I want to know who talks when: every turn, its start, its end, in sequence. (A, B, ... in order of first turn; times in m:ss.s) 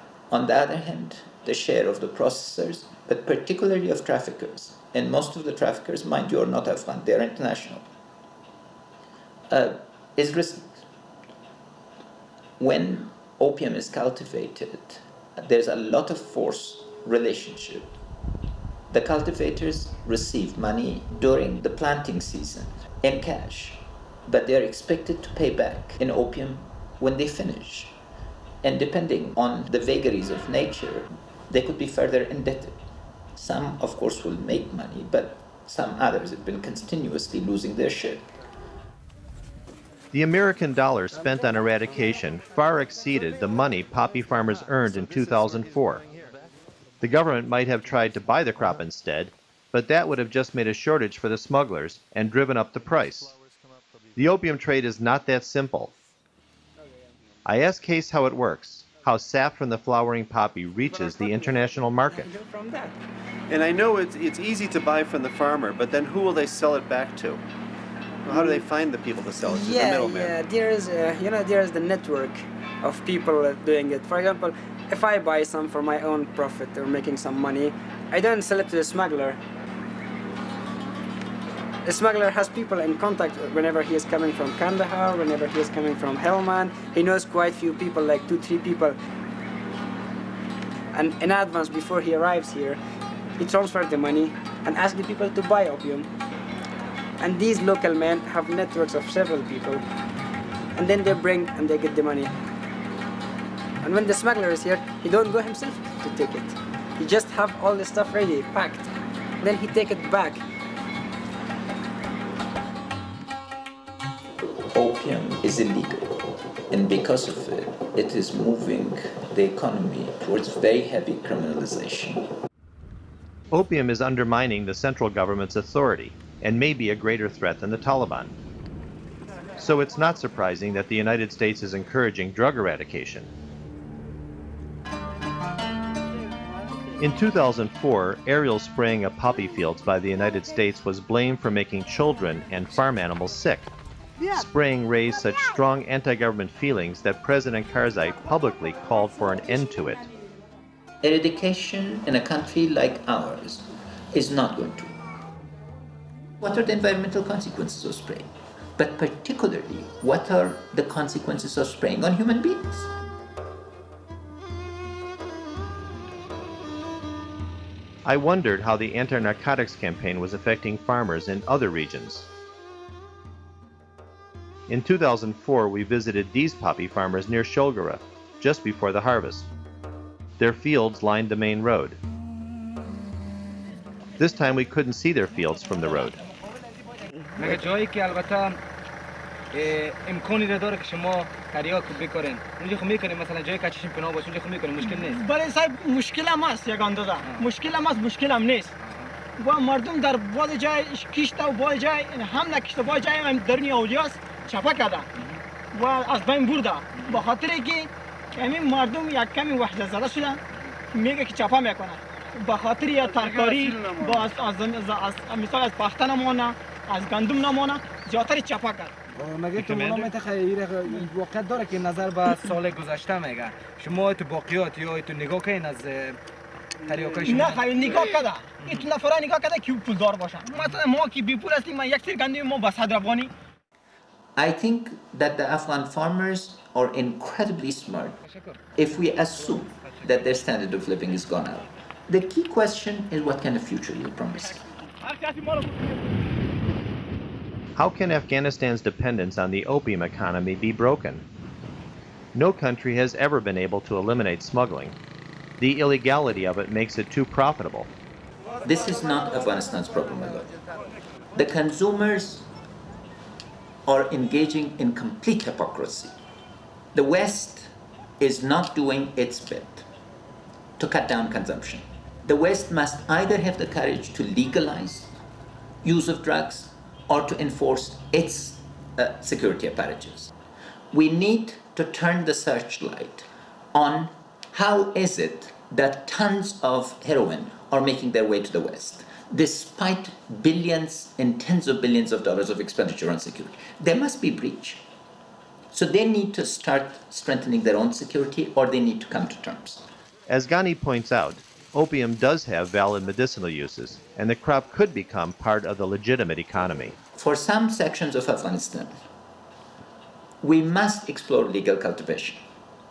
0:00.3-0:07.9 A
0:09.5-0:10.9 A
0:12.6-0:17.9 A
0:18.9-0:28.0 A
0:28.6-0:32.8 A
0:33.4-0:38.3 A
0:40.1-0:46.0 B
0:44.6-0:46.5 C
0:47.0-0:53.3 B
0:52.9-0:54.1 C
0:54.2-0:55.9 B
0:57.4-1:02.4 B
1:02.1-1:03.0 D
1:03.5-1:07.4 C
1:08.2-1:10.4 C
1:09.4-1:19.4 D
1:21.8-1:29.0 D
1:30.9-1:32.8 D
1:33.4-1:36.1 D
1:37.2-1:39.8 D
1:40.8-1:42.3 D
1:43.8-1:48.9 D
1:49.4-1:50.4 D
1:54.7-1:56.1 A
1:56.7-2:02.3 A
2:03.5-2:08.4 B
2:09.6-2:13.3 B
2:17.0-2:23.7 B
2:24.3-2:30.1 B
2:31.0-2:35.0 A
2:36.4-2:42.9 A
2:48.0-2:52.3 B
2:54.7-2:59.5 B
3:00.4-3:02.0 B
3:04.2-3:06.2 B
3:07.4-3:08.6 E
3:09.5-3:15.2 E
3:14.8-3:18.7 F
3:18.8-3:19.1 E
3:19.4-3:25.1 F
3:25.7-3:30.4 F
3:30.9-3:39.0 F
3:33.2-3:34.2 E
3:39.1-3:46.2 E
3:39.7-3:40.1 F
3:46.9-3:48.0 E
3:47.2-3:53.3 F
3:54.4-3:58.2 A
3:58.8-4:04.6 A
4:07.8-4:11.2 B
4:12.3-4:15.0 B
4:15.6-4:17.9 B
4:18.6-4:20.5 A
4:21.3-4:22.5 A
4:23.8-4:26.2 A
4:26.9-4:29.9 A
4:30.8-4:35.2 A
4:35.8-4:40.3 A
4:40.9-4:54.8 A
4:55.7-4:59.9 A
5:00.3-5:07.0 B
5:07.2-5:09.0 A
5:10.4-5:12.5 A